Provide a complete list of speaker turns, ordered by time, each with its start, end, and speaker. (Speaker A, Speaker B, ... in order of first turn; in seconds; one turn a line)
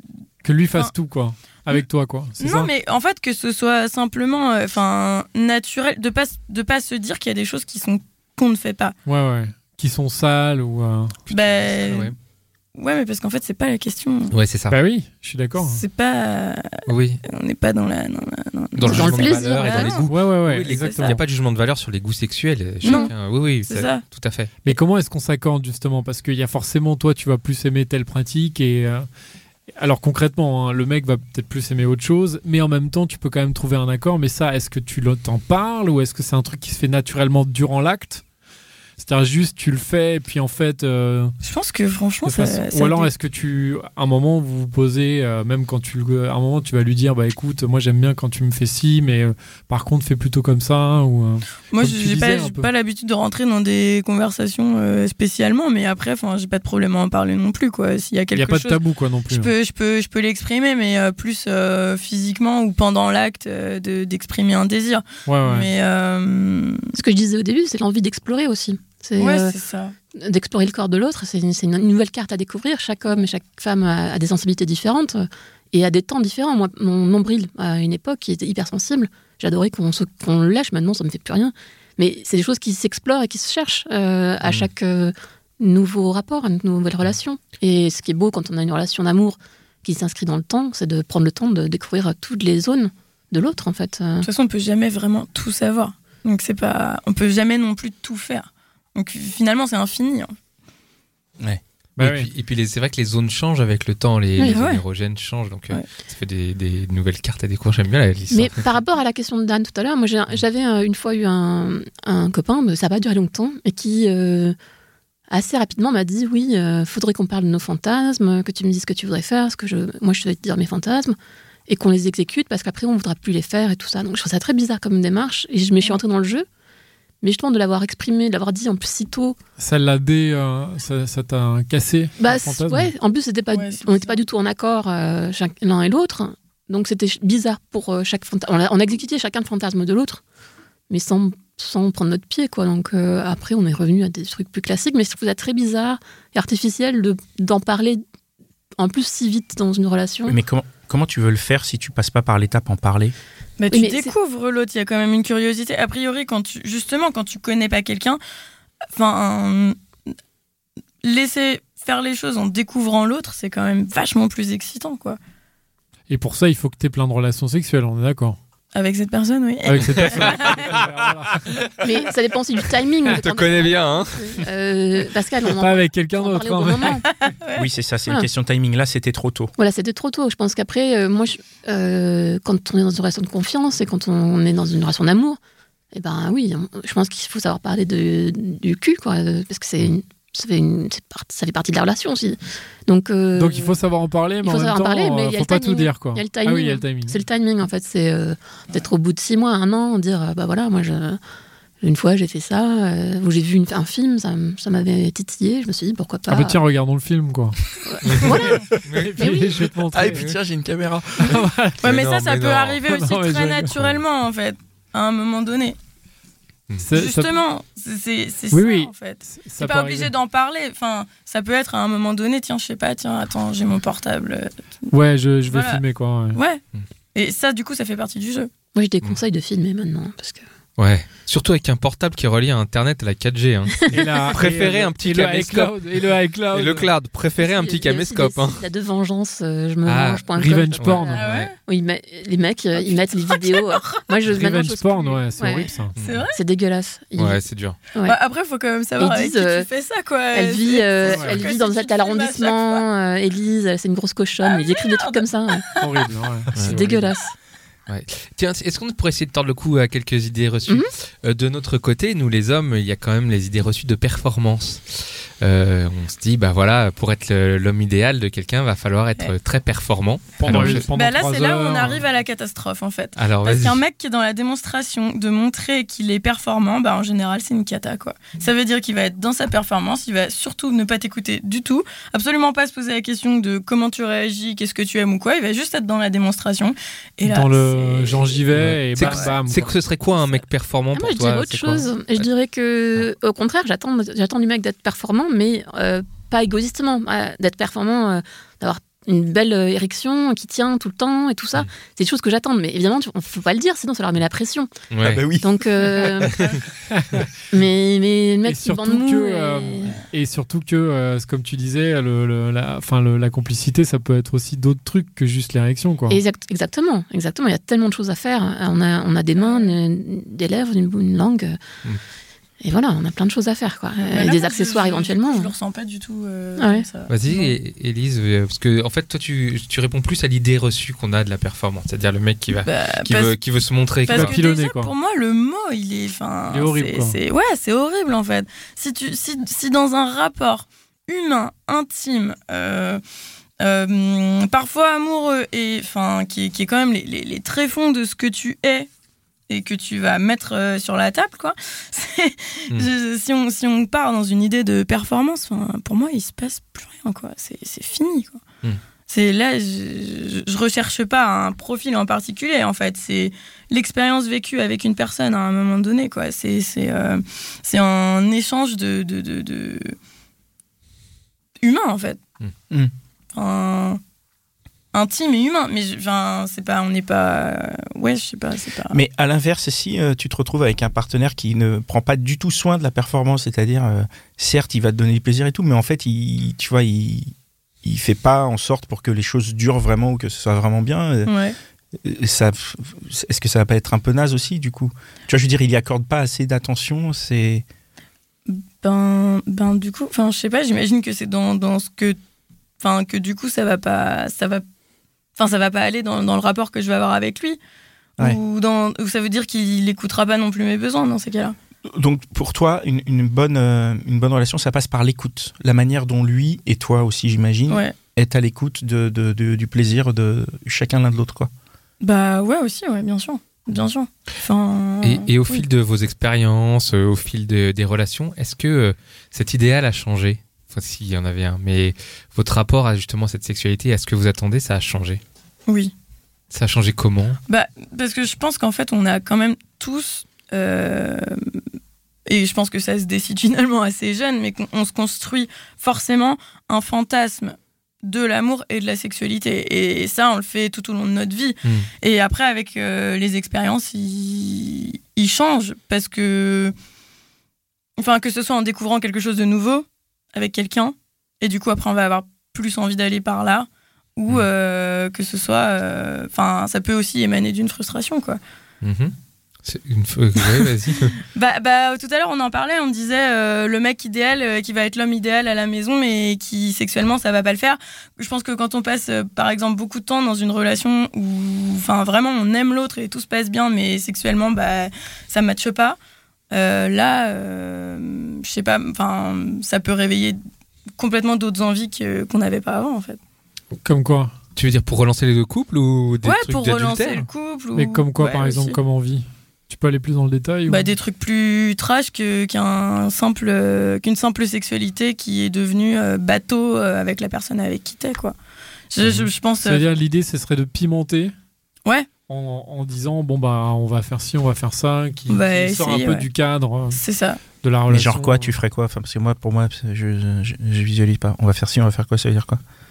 Speaker A: 0.4-2.7
Speaker B: 2.4-8.9
Speaker A: 9.1-11.2
Speaker C: 11.3-12.2
Speaker B: 11.3-12.1
Speaker B: 12.8-14.3
Speaker C: 14.3-14.8
Speaker A: 14.7-15.8
Speaker B: 15.6-16.7
Speaker C: 16.9-17.2
Speaker B: 17.2-20.1
Speaker C: 18.8-24.6
Speaker D: 18.9-20.0
Speaker A: 20.1-21.2
Speaker B: 20.6-21.2
Speaker B: 22.8-23.1
Speaker D: 22.8-23.1
Speaker B: 23.6-24.0
Speaker A: 24.6-29.1
Speaker A: 29.8-38.2
Speaker A: 39.0-41.3
Speaker B: 41.4-43.1
Speaker A: 42.2-52.7
Speaker B: 51.7-66.8
Speaker A: 58.3-59.5
Speaker A: 65.3-65.7
Speaker D: 66.9-69.5
Speaker B: 69.2-69.9
Speaker D: 70.1-94.3
Speaker B: 94.2-100.3
Speaker A: 102.0-102.3
Speaker C: 102.0-108.7
Speaker B: 104.4-104.8
Speaker D: 108.3-114.5
Speaker D: 115.3-121.2
Speaker D: 121.7-126.5
Speaker D: 127.2-129.4
Speaker A: 129.6-132.9
Speaker D: 132.2-140.2
Speaker B: 133.5-134.2
Speaker D: 140.9-148.0
Speaker D: 148.8-150.4
Speaker E: 150.3-153.1
Speaker B: 153.6-158.2
Speaker D: 153.7-154.1
Speaker B: 158.9-159.8
Speaker B: 161.0-165.2
Speaker A: 166.1-168.4
Speaker B: 168.8-170.7
Speaker A: 169.6-171.7
Speaker C: 169.9-171.7
Speaker D: 171.8-177.1
Speaker C: 173.0-174.4
Speaker A: 175.5-177.0
Speaker B: 177.2-177.7
Speaker E: 177.5-179.5
Speaker D: 179.6-185.4
Speaker D: 185.9-193.8
Speaker A: 193.3-197.2
Speaker D: 194.4-201.2
Speaker D: 201.8-206.6
Speaker A: 206.3-207.6
Speaker D: 207.8-208.6
Speaker C: 208.0-209.5
Speaker A: 209.0-210.2
Speaker D: 209.2-209.5
Speaker E: 209.9-211.4
Speaker C: 210.0-210.4
Speaker A: 211.2-211.8
Speaker B: 211.8-215.8
Speaker C: 211.8-212.8
Speaker A: 212.9-213.8
Speaker A: 216.8-217.4
Speaker B: 216.9-224.9
Speaker A: 218.5-220.1
Speaker A: 224.9-226.4
Speaker B: 225.4-225.8
Speaker B: 226.3-226.6
Speaker B: 227.1-228.5
Speaker D: 228.8-230.4
Speaker C: 230.8-238.6
Speaker A: 233.9-236.9
Speaker D: 237.4-245.7
Speaker C: 239.9-240.2
Speaker A: 240.4-241.2
Speaker C: 240.8-241.5
Speaker B: 241.2-241.6
Speaker B: 242.8-244.0
Speaker A: 244.3-245.9
Speaker C: 246.0-246.3
Speaker B: 246.0-246.4
Speaker D: 246.3-247.4
Speaker C: 247.2-247.8
Speaker B: 248.0-252.8
Speaker D: 249.0-249.7
Speaker D: 250.3-255.6
Speaker A: 251.1-251.5
Speaker B: 254.4-256.1
Speaker A: 255.8-257.1
Speaker D: 256.6-257.4
Speaker C: 257.9-270.9
Speaker A: 270.4-272.0
Speaker B: 270.4-289.4
Speaker C: 273.1-273.8
Speaker A: 287.2-289.8
Speaker C: 288.5-292.3
Speaker D: 290.9-304.7
Speaker C: 304.9-305.2
Speaker E: 305.0-306.5
Speaker D: 305.4-306.4
Speaker A: 306.9-307.2
Speaker D: 307.5-310.0
Speaker A: 308.4-316.2
Speaker D: 316.1-321.6
Speaker B: 319.4-319.8
Speaker D: 322.6-325.5
Speaker B: 324.0-327.6
Speaker D: 326.6-326.9
Speaker C: 327.1-334.4
Speaker B: 332.6-333.4
Speaker B: 334.1-343.0
Speaker A: 334.1-334.9
Speaker A: 336.5-337.2
Speaker B: 343.6-348.9
Speaker B: 349.5-358.4
Speaker B: 359.1-369.9
Speaker B: 371.6-372.2
Speaker B: 373.3-374.0
Speaker B: 374.9-379.0
Speaker E: 378.9-387.3
Speaker E: 387.8-391.3
Speaker B: 391.3-391.6
Speaker E: 392.0-397.6
Speaker B: 398.5-402.2
Speaker B: 402.8-404.6
Speaker B: 405.4-407.6
Speaker B: 408.2-411.6
Speaker E: 411.9-421.5
Speaker B: 417.7-417.9
Speaker B: 422.0-425.6
Speaker C: 425.0-435.2
Speaker B: 435.7-435.9
Speaker C: 436.5-437.4
Speaker B: 437.5-441.4
Speaker B: 442.3-456.7
Speaker C: 451.6-451.9
Speaker B: 458.0-468.4
Speaker C: 468.8-469.1
Speaker C: 469.6-471.2
Speaker B: 471.3-486.0
Speaker B: 486.5-490.4
Speaker B: 491.0-493.2
Speaker A: 493.8-494.3
Speaker C: 494.6-497.3
Speaker B: 496.2-498.8
Speaker A: 497.8-500.9
Speaker B: 500.6-508.4
Speaker B: 508.9-509.9
Speaker C: 509.0-509.3
Speaker A: 509.6-511.3
Speaker A: 512.3-517.0
Speaker B: 515.3-516.3
Speaker B: 516.9-517.4
Speaker A: 517.5-518.5
Speaker E: 517.9-522.6